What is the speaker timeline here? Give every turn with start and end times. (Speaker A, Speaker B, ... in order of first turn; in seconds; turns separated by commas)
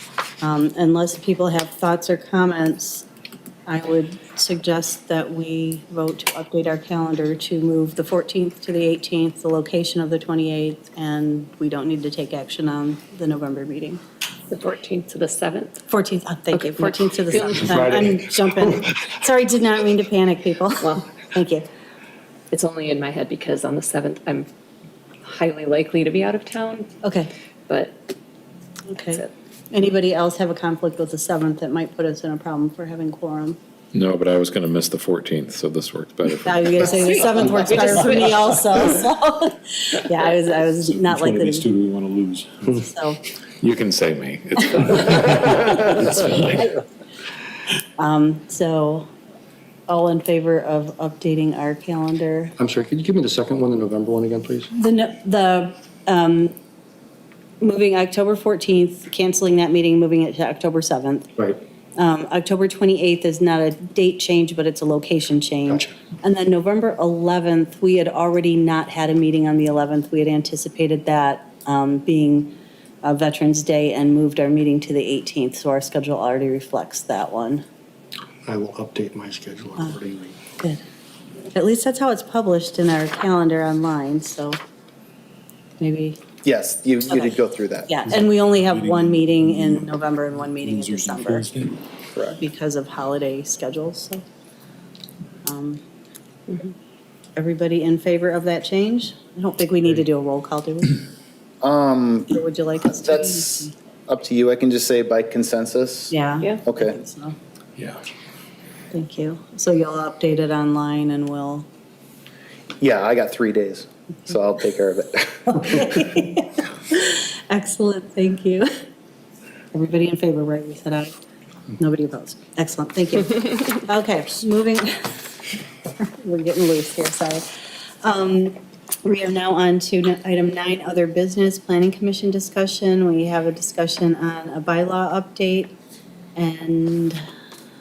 Speaker A: 0.4-3.1, Speaker A: 3.7-14.0, Speaker B: 14.5-15.8, Speaker A: 15.9-21.7, Speaker B: 16.5-18.2, Speaker B: 22.5-24.5, Speaker B: 25.2-26.9, Speaker A: 27.0-27.3, Speaker B: 27.7-28.0, Speaker A: 28.9-33.6, Speaker C: 33.9-36.6, Speaker A: 36.4-41.7, Speaker B: 36.8-38.5, Speaker D: 41.1-42.7, Speaker A: 42.7-43.2, Speaker C: 43.6-46.7, Speaker D: 45.7-46.1, Speaker A: 48.0-49.1, Speaker A: 49.9-52.5, Speaker E: 52.6-54.7, Speaker A: 54.7-56.5, Speaker A: 57.6-61.3, Speaker A: 62.0-77.6, Speaker E: 78.5-80.4, Speaker A: 81.5-84.6, Speaker A: 85.8-86.2, Speaker F: 86.4-87.9, Speaker A: 87.9-91.5, Speaker D: 88.7-89.8, Speaker D: 90.6-91.8, Speaker A: 92.3-94.2, Speaker A: 95.5-95.8, Speaker A: 97.4-101.0, Speaker F: 101.6-107.0, Speaker A: 102.3-103.7, Speaker A: 106.1-107.4, Speaker A: 108.9-111.7, Speaker F: 112.8-116.1, Speaker A: 115.5-118.7, Speaker A: 119.7-121.1, Speaker A: 121.8-125.3, Speaker A: 126.0-127.5, Speaker A: 128.0-135.8, Speaker A: 136.4-137.2